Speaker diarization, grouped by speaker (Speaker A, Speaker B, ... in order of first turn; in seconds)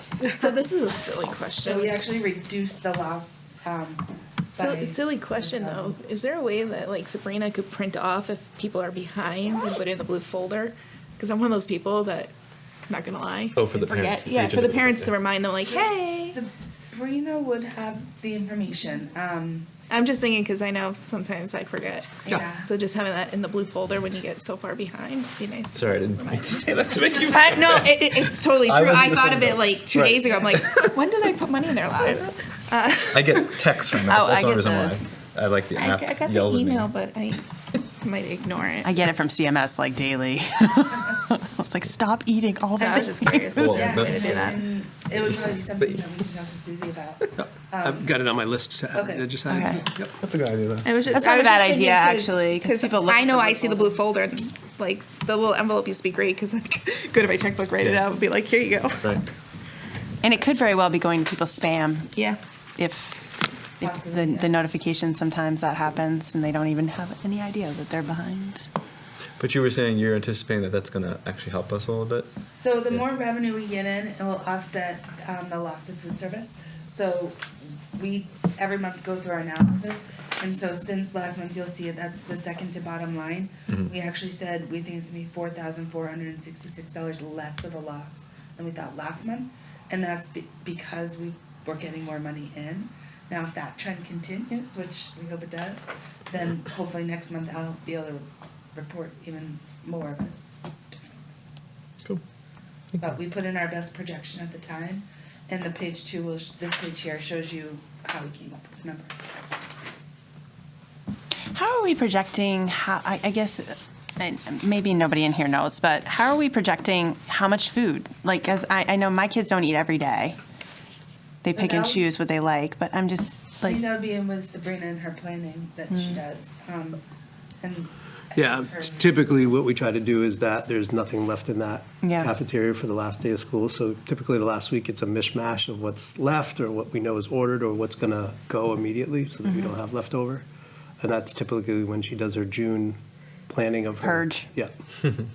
Speaker A: 0.2-2.1, 4.5-12.3, 12.9-16.4, 19.9-33.6, 35.8-39.0, 42.8-44.7, 50.9-59.1, 62.1-62.4
Speaker B: 1.6-6.0, 15.7-19.7, 22.2-22.7, 43.6-48.1, 48.9-49.3, 63.8-64.5, 72.6-100.4, 100.9-101.5, 103.0-109.2, 121.5-122.0, 123.7-127.0, 127.6-129.2
Speaker C: 13.6-15.1, 25.7-30.7, 33.1-36.9, 43.5-44.5, 45.1-46.5, 50.1-51.2, 59.0-59.3, 69.4-72.3
Speaker D: 34.0-35.0, 38.8-43.8, 49.5-49.8, 51.1-54.0, 60.2-62.1, 62.8-68.7, 111.5-120.4, 121.4-123.8, 125.9-126.2, 132.0-132.3, 139.5-139.7, 144.0-144.5
Speaker E: 47.4-50.2, 128.3-140.4, 141.0-144.7